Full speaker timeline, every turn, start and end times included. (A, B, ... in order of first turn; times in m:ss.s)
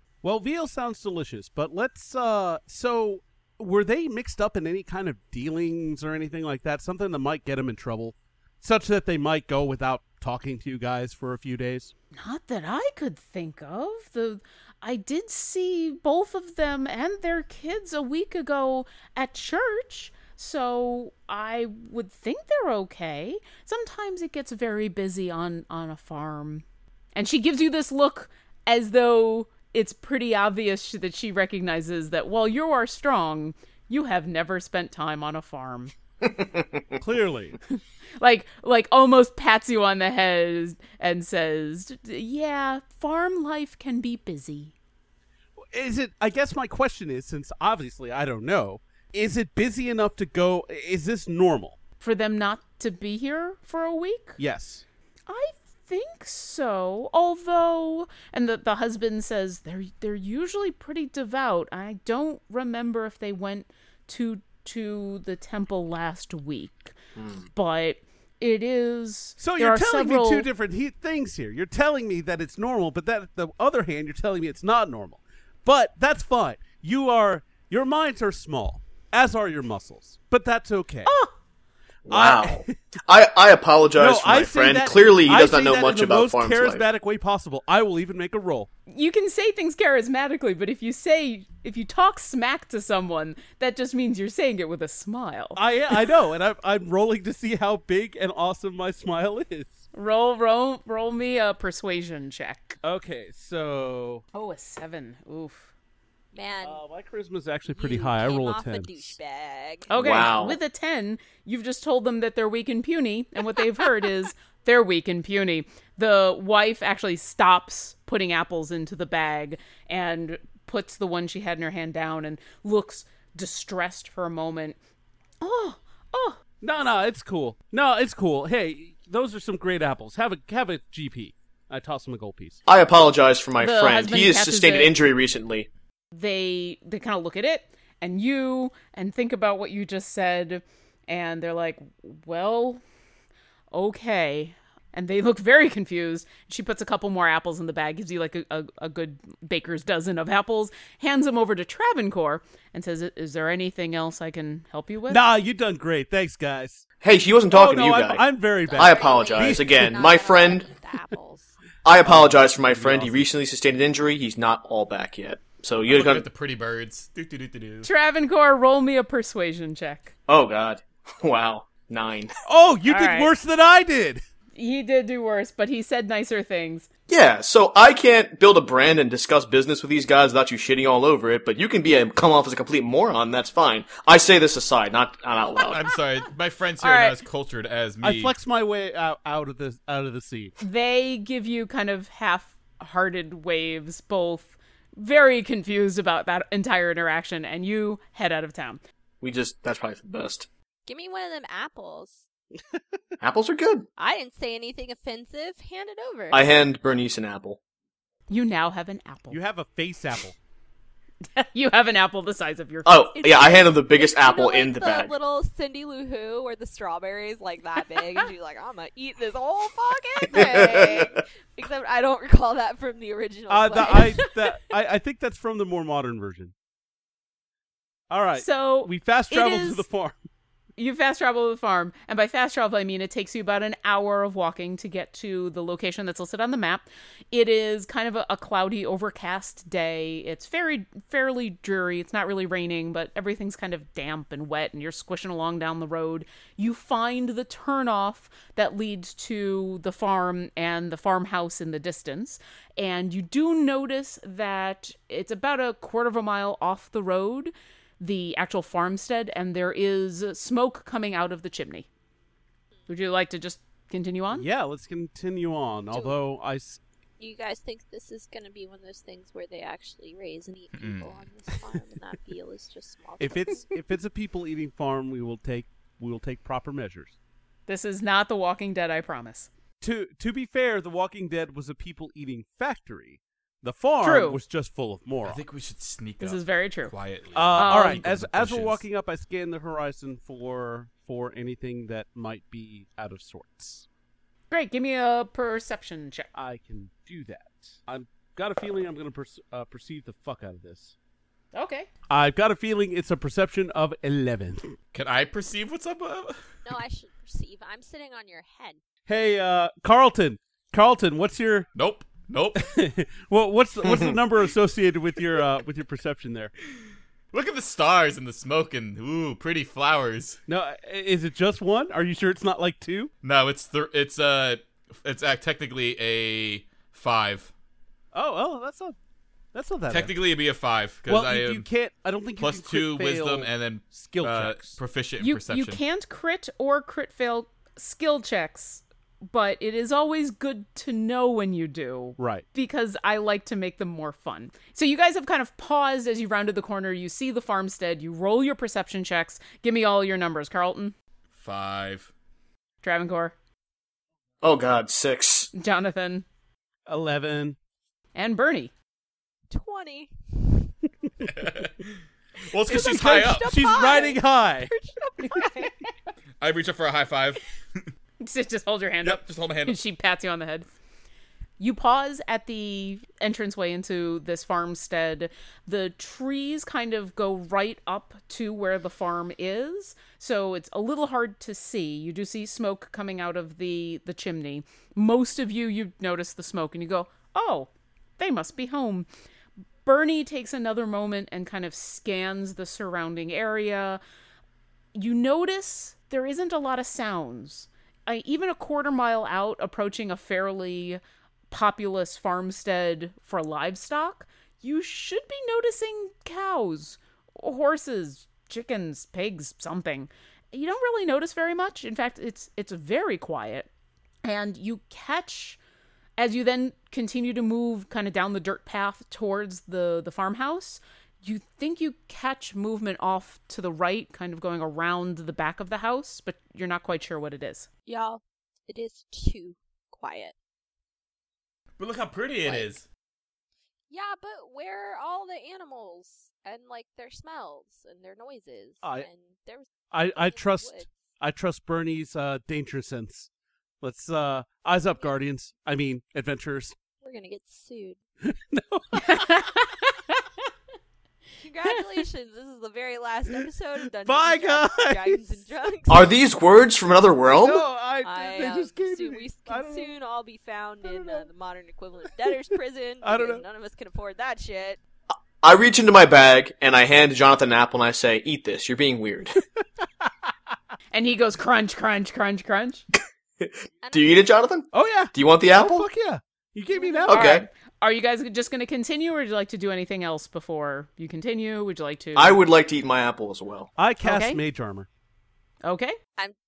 0:00.2-0:11.9 A
0:12.1-0:26.6 B
0:27.1-0:35.9 B
0:36.2-0:37.0 C
0:37.0-0:37.6 A
0:38.2-0:44.7 B
0:45.7-0:51.8 A
0:52.0-0:54.4 B
0:54.4-0:54.8 A
0:55.3-1:07.0 B
1:07.2-1:07.4 C
1:07.5-1:10.5 B
1:09.4-1:21.1 A
1:21.0-1:21.3 B
1:22.1-1:26.8 C
1:22.1-1:22.8 A
1:24.0-1:28.7 A
1:28.9-1:35.6 B
1:35.6-1:39.8 A
1:39.9-1:42.8 B
1:42.8-1:44.2 A
1:44.3-1:45.7 B
1:46.3-1:46.8 D
1:46.6-1:49.2 A
1:47.7-1:49.9 D
1:49.9-2:04.8 B
1:50.0-1:50.6 C
2:05.4-2:06.4 B
2:06.6-2:12.6 A
2:12.7-2:15.7 C
2:13.6-2:14.9 B
2:16.1-2:22.8 B
2:23.7-2:35.2 B
2:35.1-2:36.8 A
2:37.0-2:40.7 C
2:37.5-2:40.0 A
2:38.6-2:41.6 D
2:41.8-2:46.3 C
2:42.0-2:43.3 A
2:45.9-2:47.9 E
2:47.8-2:50.1 B
2:50.3-2:52.3 C
2:52.4-2:54.2 A
2:52.8-2:53.3 B
2:54.6-2:56.9 B
2:57.1-3:05.8 C
3:05.6-3:08.3 E
3:06.8-3:07.2 B
3:08.0-3:10.6 A
3:10.6-3:18.8 B
3:19.2-3:20.5 C
3:20.8-3:22.2 D
3:23.2-3:23.9 C
3:24.0-3:26.6 D
3:26.3-3:27.6 C
3:28.3-3:29.4 B
3:29.3-3:30.4 A
3:31.3-3:33.2 B
3:32.8-3:35.1 C
3:33.2-3:44.2 D
3:40.3-3:41.1 B
3:40.3-3:41.1 C
3:43.5-3:46.5 A
3:43.8-3:44.3 B
3:48.1-3:50.2 A
3:48.4-3:49.8 B
3:50.8-4:21.8 B
4:22.9-4:24.5 B
4:24.3-4:26.8 A
4:25.9-4:26.2 D
4:27.2-4:33.7 D
4:30.7-4:31.2 E
4:33.2-4:37.1 A
4:37.7-4:39.5 B
4:39.8-4:45.4 A
4:44.0-4:44.4 B
4:45.2-4:48.8 E
4:46.2-4:46.9 B
4:47.3-4:53.8 A
4:47.5-4:48.0 B
4:54.5-4:56.3 B
4:56.3-5:00.9 A
5:01.5-5:01.9 B
5:02.1-5:04.7 A
5:04.9-5:06.4 E
5:06.6-5:08.8 D
5:09.1-5:11.7 A
5:11.7-5:12.7 E
5:12.5-5:16.5 A
5:13.8-5:14.2 C
5:17.3-5:20.4 E
5:20.5-5:23.1 A
5:23.2-5:27.5 E
5:28.1-5:29.0 A
5:29.5-5:30.1 A
5:29.9-5:31.6 E
5:31.1-5:34.8 A
5:32.4-5:35.8 E
5:35.2-5:50.9 B
5:42.2-5:42.4 A
5:51.3-5:52.1 E
5:52.8-5:53.3 B
5:54.4-5:55.5 C
5:55.5-5:56.2 B
5:56.9-5:57.6 A
5:58.1-5:58.7 B
5:59.5-6:00.7 D
6:01.2-6:03.6 E
6:02.7-6:04.7 A
6:02.7-6:05.7 D
6:05.3-6:05.7 B
6:06.4-6:07.4 E
6:08.2-6:10.7 B
6:09.0-6:09.8 E
6:11.6-6:29.1 B
6:29.8-6:34.0 B
6:34.9-6:41.0 B
6:41.5-6:53.7 B
6:54.2-6:55.6 B
6:56.2-7:07.7 B
7:07.8-7:10.3 D
7:11.8-7:12.8 E
7:12.4-7:12.7 D
7:13.9-7:20.9 D
7:19.9-7:23.3 A
7:23.8-7:26.7 A
7:27.0-7:28.0 D
7:28.2-7:29.5 A
7:29.0-7:30.2 B
7:31.4-7:36.1 D
7:34.0-7:35.2 A
7:35.9-7:37.6 C
7:37.4-7:39.9 A
7:38.0-7:44.8 D
7:40.8-7:41.3 A
7:43.0-7:43.4 A
7:45.4-7:49.4 C
7:50.9-7:52.8 B
7:53.4-7:55.8 C
7:53.8-7:54.2 D
7:54.7-7:57.4 A
7:56.8-7:57.1 D
7:57.0-7:57.4 C
7:57.1-8:02.4 B
8:02.1-8:03.7 C
8:03.8-8:04.9 A
8:04.0-8:04.4 B
8:05.6-8:06.0 B